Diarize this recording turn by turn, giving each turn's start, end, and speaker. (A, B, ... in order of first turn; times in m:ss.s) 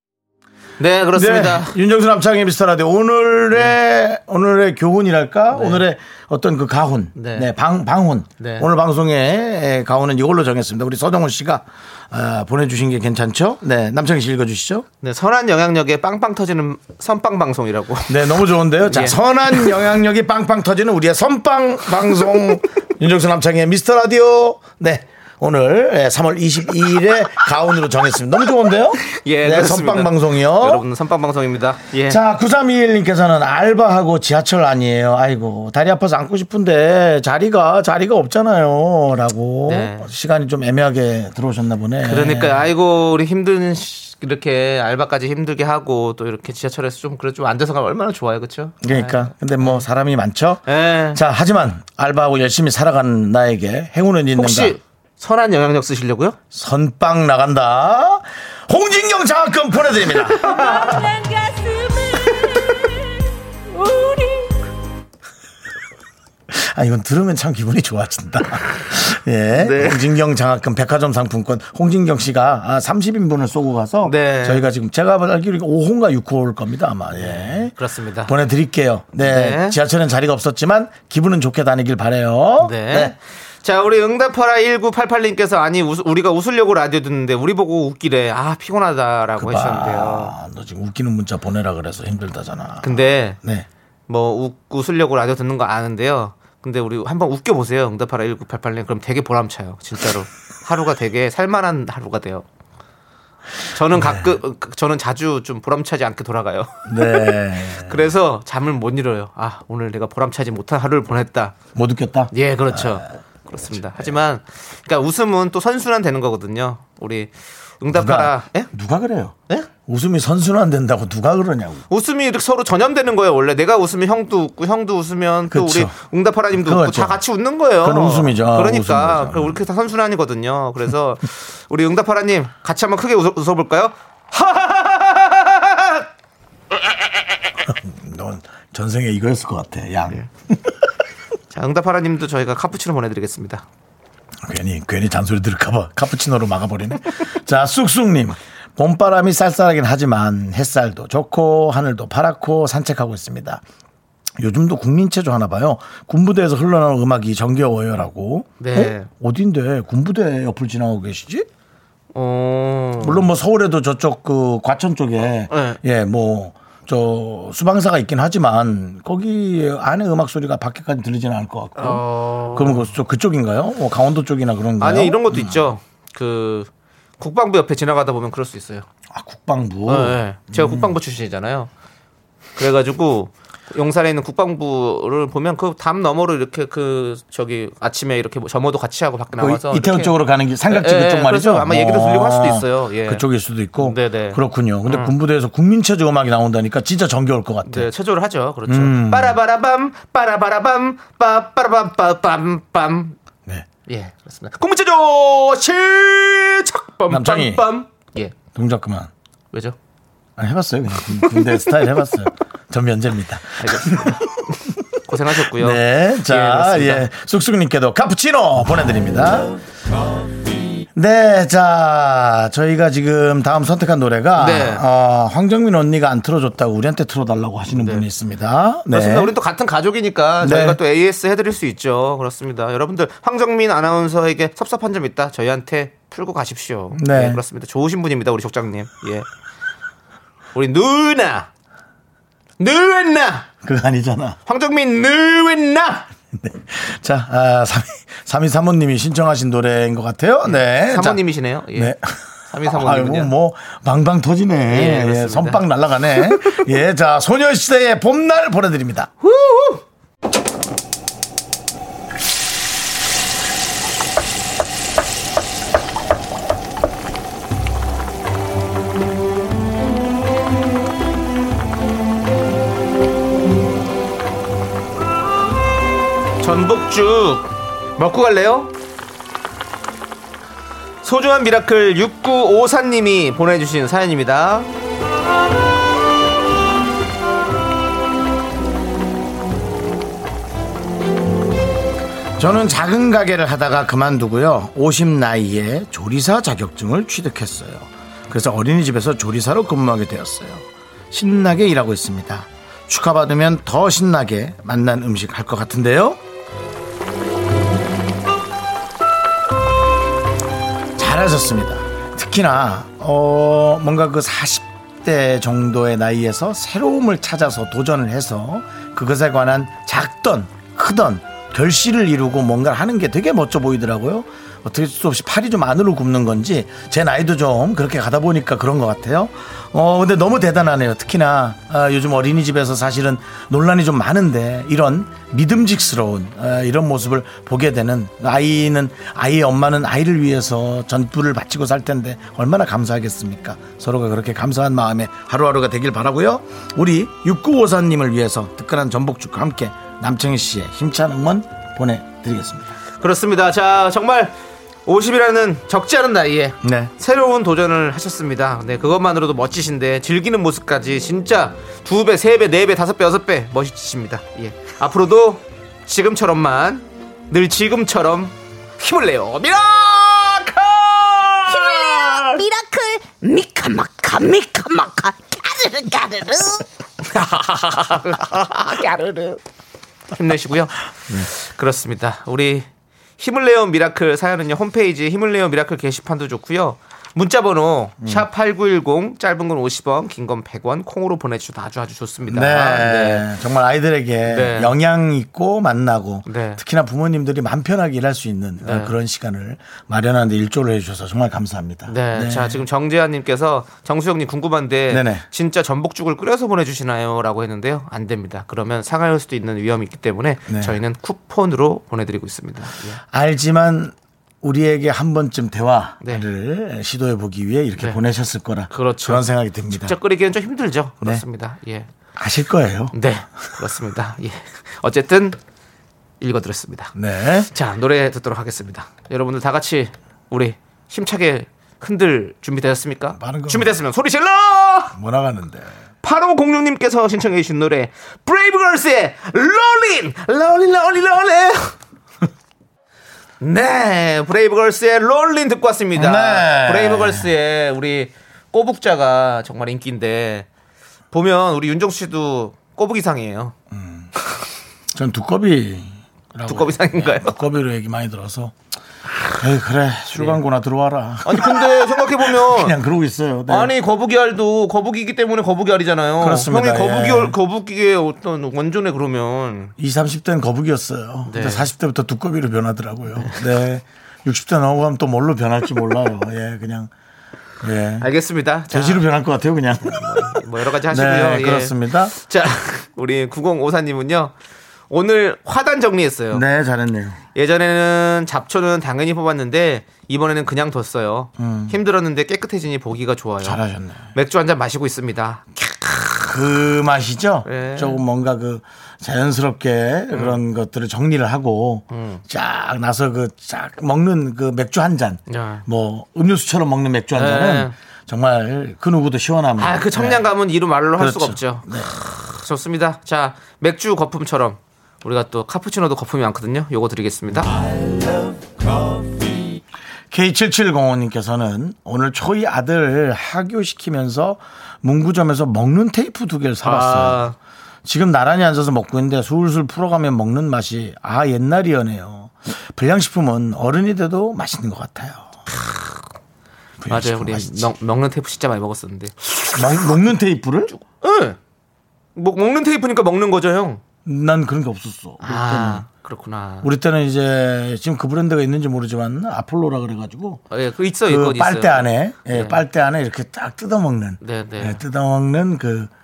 0:00.8-0:01.7 A
0:01.1-0:14.8 B
0:05.5-0:05.8 A
0:07.1-0:07.5 A
0:08.4-0:08.7 A
0:15.0-0:19.7 A
0:18.1-0:30.8 B
0:29.0-0:32.2 A
0:32.1-0:42.6 B
0:39.7-0:40.1 A
0:42.0-0:49.8 A
0:48.8-0:54.8 B
0:50.7-0:51.2 A
0:54.3-0:56.4 A
0:56.5-1:00.7 B
1:00.1-1:01.1 A
1:00.4-1:03.2 C
1:03.7-1:04.6 C
1:06.5-1:23.1 B
1:09.5-1:10.1 A
1:14.0-1:14.6 A
1:17.2-1:18.3 A
1:19.2-1:19.8 A
1:22.6-1:30.3 A
1:29.4-1:33.7 B
1:32.8-1:33.4 A
1:34.1-1:42.4 A
1:43.7-1:51.6 A
1:43.9-1:44.3 B
1:46.9-1:48.1 B
1:51.7-1:53.0 B
1:52.3-1:58.7 A
1:57.9-2:01.8 B
2:01.9-2:16.0 A
2:05.5-2:05.9 B
2:06.6-2:07.2 B
2:07.8-2:09.6 B
2:17.6-2:20.8 B
2:21.5-2:23.6 A
2:24.4-2:33.6 B
2:34.4-2:41.5 B
2:38.6-2:39.1 A
2:42.1-2:43.3 A
2:43.0-2:55.7 B
2:45.5-2:45.8 A
2:51.8-2:52.9 A
2:54.8-2:58.8 A
2:59.1-3:01.0 B
2:59.9-3:01.7 A
3:02.6-3:10.1 A
3:09.4-3:17.9 B
3:10.7-3:13.2 A
3:13.8-3:15.1 A
3:17.6-3:23.2 A
3:18.7-3:19.4 B
3:23.9-3:28.4 A
3:27.1-3:27.6 B
3:28.5-3:29.1 B
3:30.4-3:34.6 B
3:31.2-3:31.8 A
3:33.6-3:37.1 A
3:35.4-3:39.6 B
3:40.9-3:49.3 B
3:44.4-3:44.8 A
3:47.7-3:48.0 A
3:48.9-3:59.3 A
3:50.4-3:50.8 B
3:56.9-3:57.4 B
4:00.5-4:01.5 A
4:02.6-4:03.5 A
4:03.6-4:04.4 B
4:04.4-4:06.1 A
4:06.3-4:11.2 B
4:10.4-4:11.9 A
4:11.7-4:19.1 B
4:12.5-4:13.3 A
4:14.7-4:15.6 A
4:16.2-4:16.6 A
4:19.2-4:19.8 A
4:36.4-4:38.7 A
4:41.0-4:44.7 A
4:52.4-5:06.2 B
5:11.0-5:52.7 B
5:53.0-5:54.3 A
5:54.8-6:12.4 A
5:56.6-5:56.9 B
6:11.5-6:16.6 C
6:17.0-6:19.4 A
6:20.1-6:22.7 A
6:23.2-6:33.2 A
6:32.3-6:42.6 B
6:34.2-6:34.7 A
6:36.2-6:36.6 A
6:38.6-6:38.9 A
6:41.9-6:53.0 A
6:44.9-6:45.2 B
6:50.5-6:50.8 B
6:53.1-6:59.9 B
6:58.7-7:01.9 A
7:02.2-7:02.9 B
7:02.9-7:05.4 A
7:06.2-7:06.9 A
7:06.9-7:07.5 B
7:07.5-7:14.9 A
7:13.2-7:13.8 B
7:14.9-7:15.7 B
7:16.0-7:21.7 A
7:23.4-7:30.5 A
7:25.9-7:27.3 B
7:31.1-7:33.5 A
7:33.7-7:34.1 B
7:34.9-7:38.5 B
7:36.5-7:37.4 A
7:39.3-7:43.7 B
7:41.2-7:42.7 A
7:43.5-7:49.7 A
7:46.2-7:47.4 B
7:49.8-7:56.9 B
7:51.2-7:51.7 A
7:53.2-7:53.4 A
7:57.6-7:58.1 B
7:58.0-7:59.0 A
7:58.7-8:02.1 B
7:59.8-8:04.3 A
8:04.9-8:06.4 A
8:06.3-8:07.2 B
8:07.3-8:13.6 A
8:11.4-8:11.7 B
8:13.4-8:14.1 B
8:14.1-8:16.3 A
8:16.2-8:30.2 B
8:17.4-8:18.0 A
8:20.1-8:20.4 A
8:21.9-8:22.2 A
8:25.3-8:25.6 A
8:27.1-8:27.7 A
8:29.6-8:37.6 A
8:31.0-8:31.9 B
8:40.1-8:47.2 B
8:46.6-8:47.4 A
8:47.8-8:55.3 B
8:55.5-8:56.0 A
8:56.8-8:57.7 B
8:56.9-9:00.0 A
8:59.5-9:00.7 B
9:00.7-9:01.4 A
9:02.2-9:03.8 A
9:04.0-9:05.8 B
9:05.2-9:06.7 A
9:06.6-9:10.4 B
9:10.5-9:12.6 A
9:11.1-9:15.9 B
9:14.2-9:14.8 A